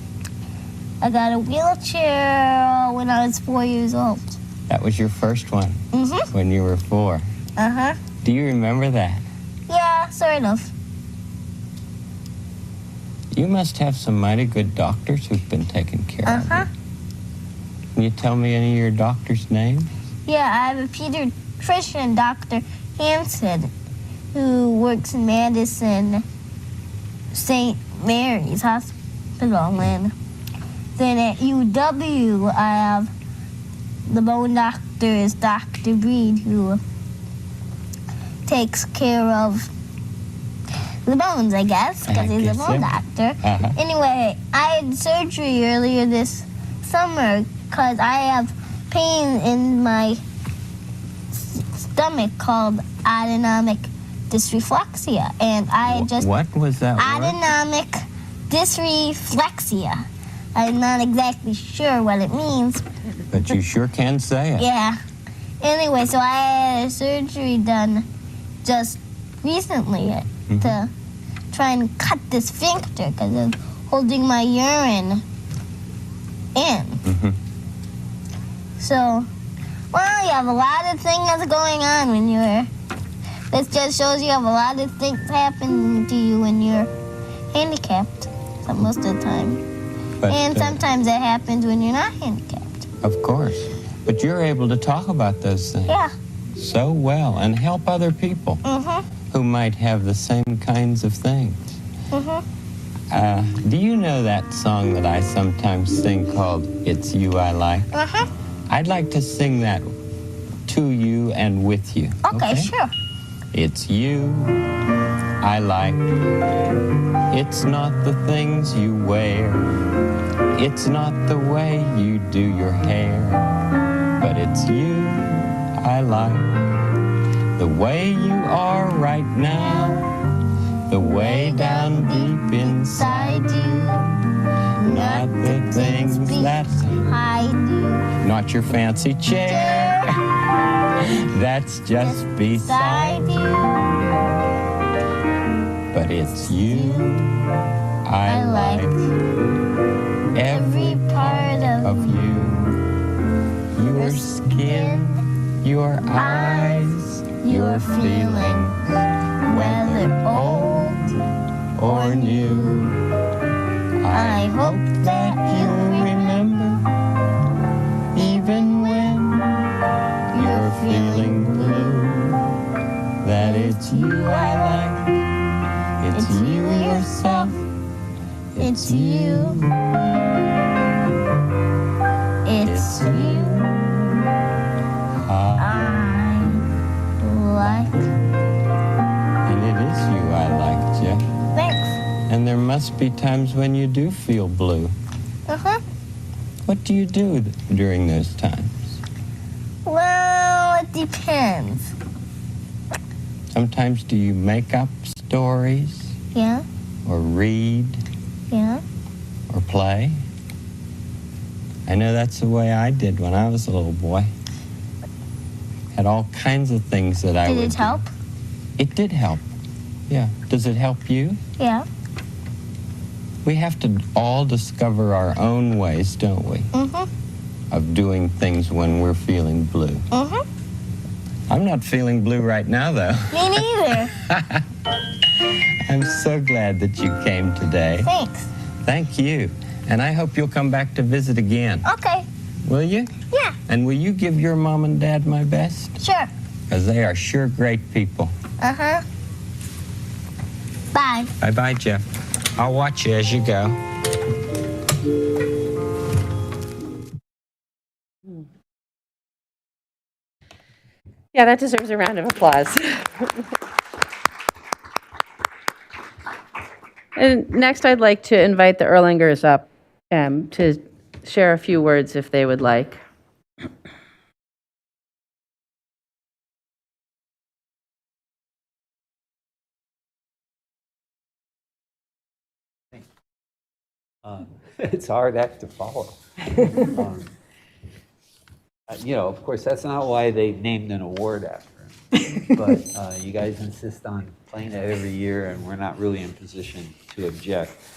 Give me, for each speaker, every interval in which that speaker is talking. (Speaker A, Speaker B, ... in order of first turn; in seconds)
Speaker A: 1.0-4.4, 5.9-6.3, 7.6-8.0, 9.7-10.7, 16.2-16.7, 20.3-23.7, 24.3-26.2, 27.3-30.1, 30.9-33.1, 34.1-36.8, 38.5-39.7, 41.0-50.2, 51.3-56.3, 57.0-60.0, 60.5-62.8, 64.6-65.0, 65.6-68.0, 68.6-70.9, 71.5-75.2, 76.5-77.0, 78.8-79.3, 79.9-82.7, 83.5-86.9, 87.5-89.6, 90.3-92.9, 95.9-96.1, 98.6-99.1, 102.1-102.4, 107.9-108.3, 112.2-112.9, 131.1-134.1, 134.8-138.1, 139.4-140.1, 142.0-143.9, 146.4-147.3, 148.3-149.0, 150.4-152.6, 153.9-155.2, 156.1-156.9, 157.4-158.7, 159.5-161.1, 161.8-162.9, 164.1-166.4, 170.3-172.0, 173.4-174.8, 176.1-177.5, 178.6-179.6, 182.4-183.6, 185.6-186.6, 187.2-188.1, 191.5-192.0, 195.5-195.8, 199.8-201.9, 206.3-206.6, 208.5-208.8, 217.4-218.1, 221.6-221.8, 226.7-227.1, 230.1-230.4, 233.3-234.1, 238.1-238.5, 241.8-242.2, 243.3-243.6, 246.0-246.3, 248.6-249.0, 250.9-251.3
Speaker B: 4.7-7.2, 8.2-9.2, 13.3-16.7, 17.9-19.9, 42.1-43.8, 55.9-57.4, 63.3-64.7, 70.5-70.8, 77.0-77.4, 90.2-90.8, 93.0-96.0, 96.5-98.6, 99.3-101.8, 103.1-107.9, 108.7-109.8, 110.7-112.7, 113.5-114.6, 115.4-116.0, 117.3-119.7, 120.5-123.5, 124.2-126.5, 127.5-130.2, 130.9-134.2, 134.8-137.1, 138.2-140.1, 141.0-143.7, 145.9-147.5, 148.0-149.0, 150.3-152.8, 153.7-160.9, 161.8-163.0, 164.0-166.9, 168.1-169.7, 170.3-172.4, 173.2-175.1, 176.0-177.6, 178.5-180.3, 182.6-184.3, 185.2-185.8, 187.6-188.0, 189.4-191.2, 192.3-194.9, 196.7-199.0, 203.5-206.1, 207.0-208.0, 209.5-210.2, 211.9-214.3, 215.9-218.0, 218.8-219.4, 220.1-221.4, 223.4-226.7, 227.7-230.1, 231.5-234.6, 235.2-238.1, 238.8-241.9, 242.6-243.1, 243.7-246.0, 246.7-248.3, 251.4-253.8
Speaker C: 261.3-263.2, 267.1-273.0
Speaker D: 284.2-287.3, 288.9-297.8